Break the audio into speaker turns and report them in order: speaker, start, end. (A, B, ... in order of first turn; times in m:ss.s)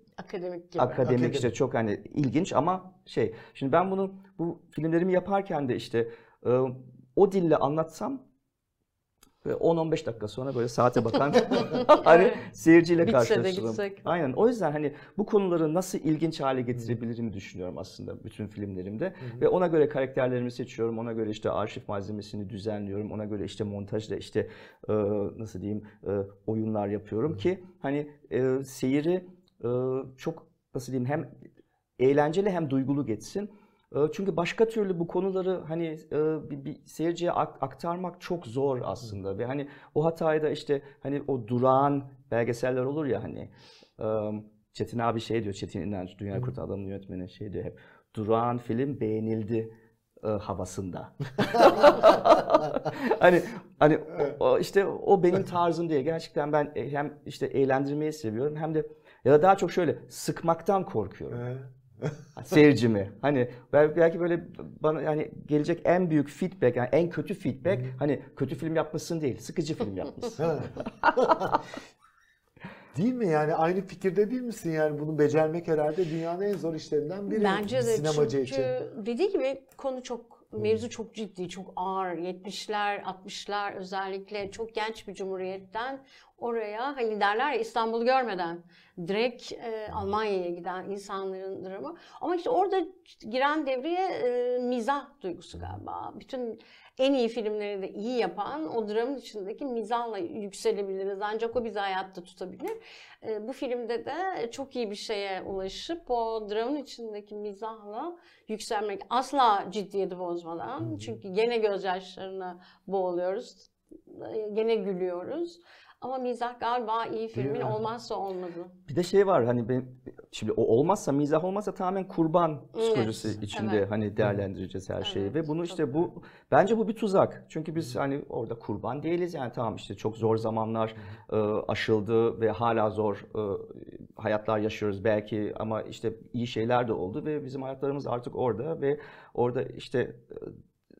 0:00.2-0:01.0 A
0:00.8-0:08.2 B
0:01.0-0:01.5 C
0:09.4-0:31.3 B
0:11.6-0:12.4 A
0:13.0-0:14.0 A
0:32.0-1:01.4 B
1:01.3-1:02.2 C
1:02.4-1:10.5 B
1:07.6-1:07.9 C
1:10.4-1:11.6 C
1:12.9-1:18.7 C
1:17.3-1:58.7 A
1:50.8-1:51.1 C
1:57.4-1:57.8 C
1:58.9-2:20.5 B
2:02.7-2:03.8 A
2:04.2-2:04.4 C
2:05.0-2:06.0 A